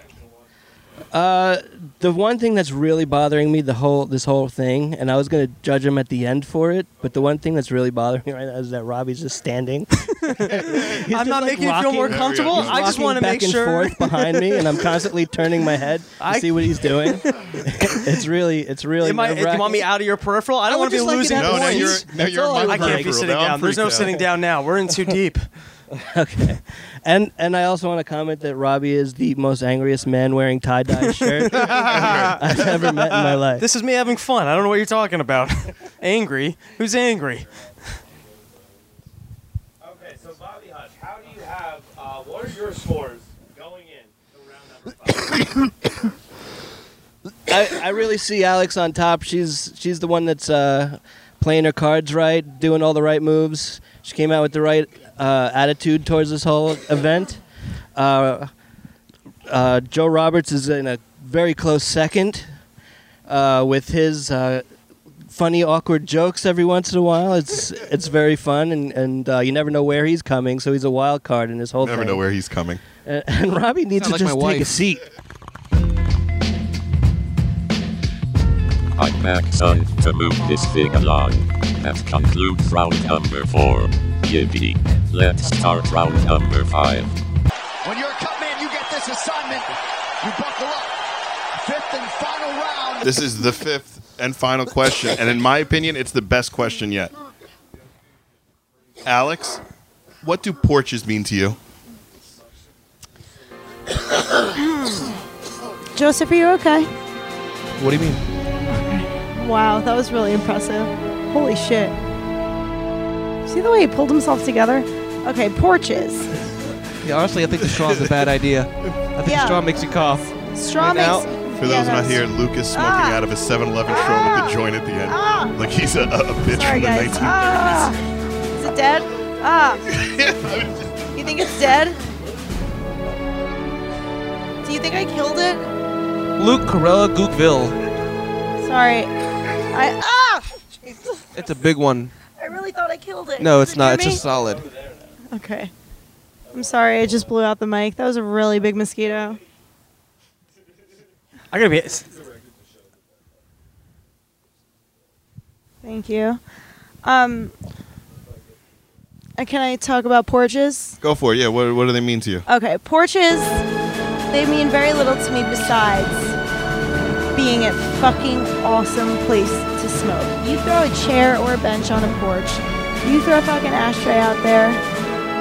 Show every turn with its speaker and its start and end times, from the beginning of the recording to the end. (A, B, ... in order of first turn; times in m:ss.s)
0:01.1-0:19.8 A
0:10.4-0:14.8 B
0:10.4-0:11.1 C
0:12.0-0:13.0 C
0:16.2-0:17.2 B
0:19.0-0:25.4 B
0:20.7-0:23.2 A
0:21.3-0:24.3 C
0:25.9-0:33.6 A
0:31.4-0:37.5 B
0:31.6-0:32.6 C
0:39.8-0:45.4 D
0:47.5-0:57.4 A
0:57.9-0:58.5 A
0:59.5-1:02.5 A
1:03.3-1:04.6 A
1:05.3-1:12.2 A
1:11.8-1:12.8 C
1:13.0-1:15.1 A
1:14.0-1:14.8 E
1:19.0-1:27.1 F
1:27.8-1:31.0 G
1:31.5-1:33.1 G
1:33.0-1:37.1 C
1:39.0-1:39.6 C
1:40.2-1:41.6 C
1:44.5-1:45.1 H
1:45.9-1:46.9 H
1:47.8-1:48.2 E
1:49.3-1:51.9 H
1:53.4-1:56.4 H
1:57.0-2:01.3 E
1:57.7-1:58.3 C
1:59.2-1:59.7 H
2:00.4-2:03.2 H
2:01.6-2:07.9 C
2:03.8-2:05.6 H
2:06.5-2:08.0 H
2:08.6-2:09.8 H
2:09.9-2:11.4 C
2:11.1-2:12.0 H
2:14.6-2:15.7 H
2:16.4-2:17.8 E
2:18.6-2:19.1 H
2:19.7-2:21.2 H
2:21.3-2:22.1 E
2:22.4-2:24.2 H
2:23.4-2:24.7 E
2:25.3-2:25.7 H
2:26.5-2:29.4 H
2:31.5-2:32.1 B
2:35.8-2:36.4 H
2:37.0-2:37.5 H
2:39.4-2:41.0 H
2:41.0-2:42.4 C
2:42.5-2:43.6 H
2:44.3-2:46.4 H
2:47.3-2:54.8 H